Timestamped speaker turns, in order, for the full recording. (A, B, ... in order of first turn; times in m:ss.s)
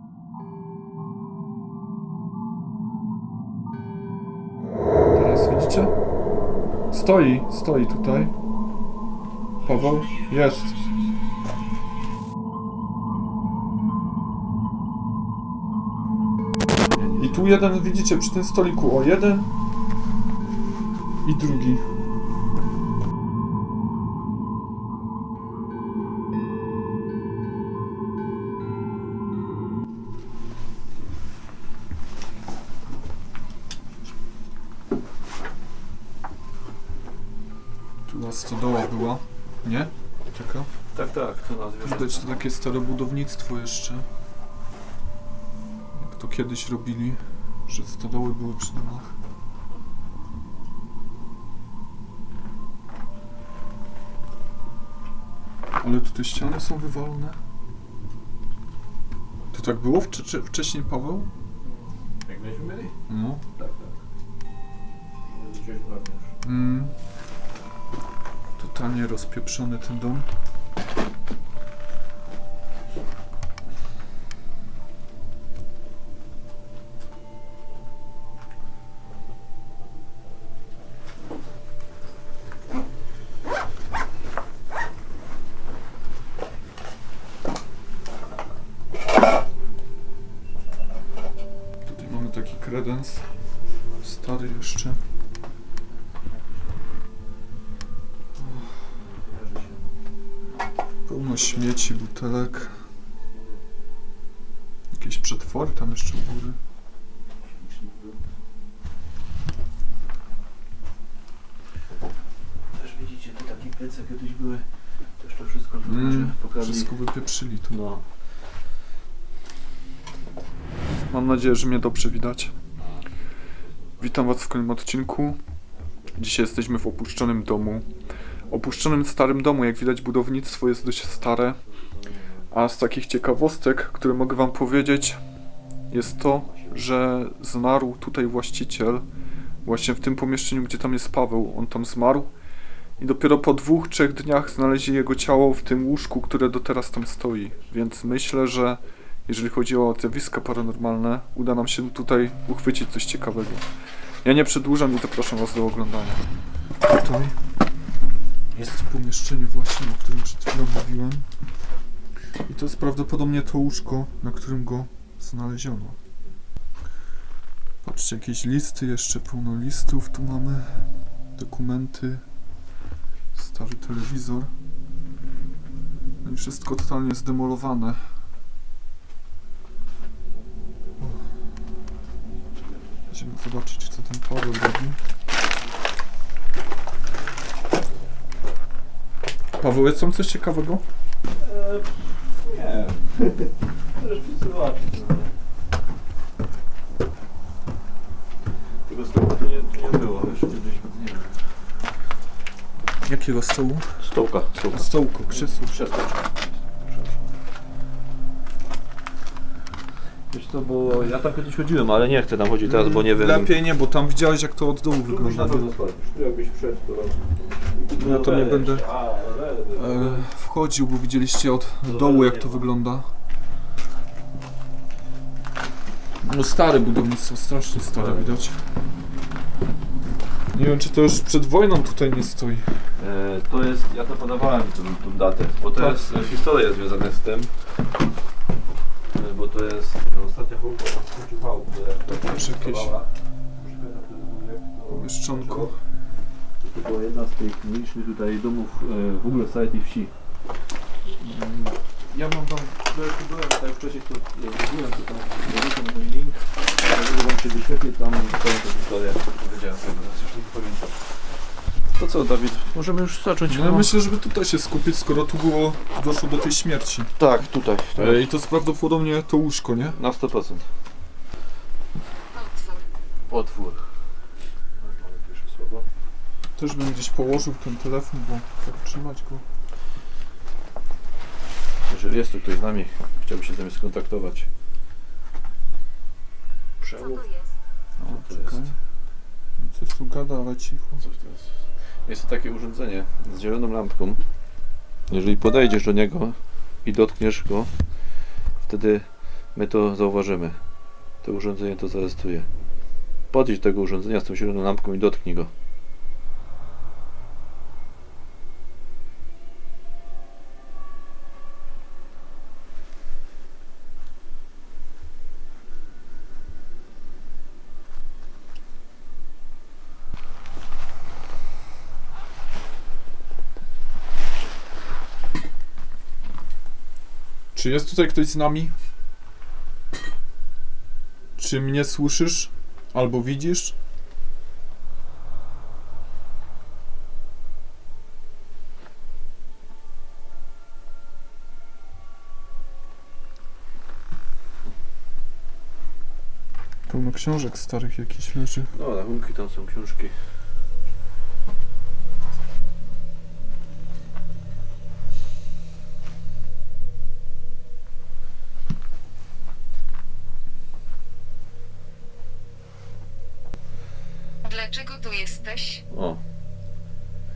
0:05.1-0:05.9 A
0:06.9-0:08.3 A
0:09.6-0:10.8 A
0:16.8-0:17.5 B
0:17.2-0:19.5 A
0:21.2-0:21.8 A
0:38.1-0:40.7 A
0:40.9-0:42.5 B
0:41.8-0:44.1 A
0:45.9-0:49.2 A
0:55.8-0:57.4 A
0:59.5-1:01.3 A
1:01.6-1:03.0 B
1:03.1-1:03.4 A
1:03.6-1:04.0 B
1:05.2-1:06.3 B
1:06.4-1:06.9 A
1:08.6-1:10.3 A
1:31.8-1:33.3 A
1:34.0-1:35.0 A
1:35.9-1:36.8 B
1:38.5-1:39.9 B
1:41.1-1:42.9 A
1:41.4-1:41.9 B
1:43.2-1:43.6 B
1:44.9-1:46.6 A
1:47.4-1:48.2 B
1:52.7-1:56.9 B
1:55.8-1:57.8 A
1:57.7-1:58.1 B
2:01.1-2:02.6 A
2:02.8-2:04.4 B
2:04.0-2:05.4 A
2:05.8-2:06.2 B
2:06.2-2:07.9 A
2:08.5-2:11.6 A
2:11.6-2:12.6 B
2:12.5-2:15.2 A
2:15.9-2:19.0 A
2:16.4-2:16.8 B
2:19.6-2:22.3 A
2:23.0-2:33.6 A
2:34.2-2:36.3 A
2:36.8-2:37.4 A
2:38.6-2:41.3 A
2:42.5-2:46.0 A
2:47.8-2:52.2 A
2:53.4-2:54.5 A
2:56.2-2:58.2 A
3:02.4-3:03.1 B
3:03.1-3:05.0 A
3:09.6-3:10.8 A
3:11.4-3:15.3 B
3:18.9-3:21.4 B
3:23.0-3:24.0 A
3:24.0-3:27.3 B
3:24.7-3:25.8 A
3:30.3-3:33.5 B
3:32.6-3:35.7 A
3:35.0-3:40.3 B
3:38.0-3:38.9 A
3:39.8-3:43.1 A
3:41.8-3:42.7 B
3:46.2-3:48.6 A
3:47.8-3:48.4 B
3:50.5-3:52.9 A
3:53.0-3:57.6 B
3:55.8-3:56.1 A
3:59.1-4:05.8 B
4:02.1-4:02.9 A
4:04.9-4:05.8 A
4:06.6-4:10.1 B
4:11.2-4:11.8 A
4:12.1-4:21.0 B
4:22.0-4:24.0 B
4:23.5-4:27.1 A
4:27.2-4:28.2 B
4:28.0-4:30.0 A
4:29.9-4:30.7 B
4:32.3-4:32.9 C
4:33.3-4:33.9 B
4:34.8-4:35.9 B
4:36.6-4:39.4 A
4:41.8-4:44.5 B
4:46.8-4:47.2 B
4:46.9-4:47.5 C
4:48.0-4:48.8 A
4:48.0-4:48.7 B
4:49.6-4:51.0 A
4:51.0-4:54.2 B
4:55.1-4:57.7 B
4:58.6-5:00.6 B
5:01.2-5:02.5 B
5:03.3-5:05.5 B
5:27.6-5:28.7 A
5:31.4-5:33.8 A
5:46.9-5:48.7 A
5:48.7-5:50.2 B
6:04.4-6:05.8 C
6:05.9-6:06.2 B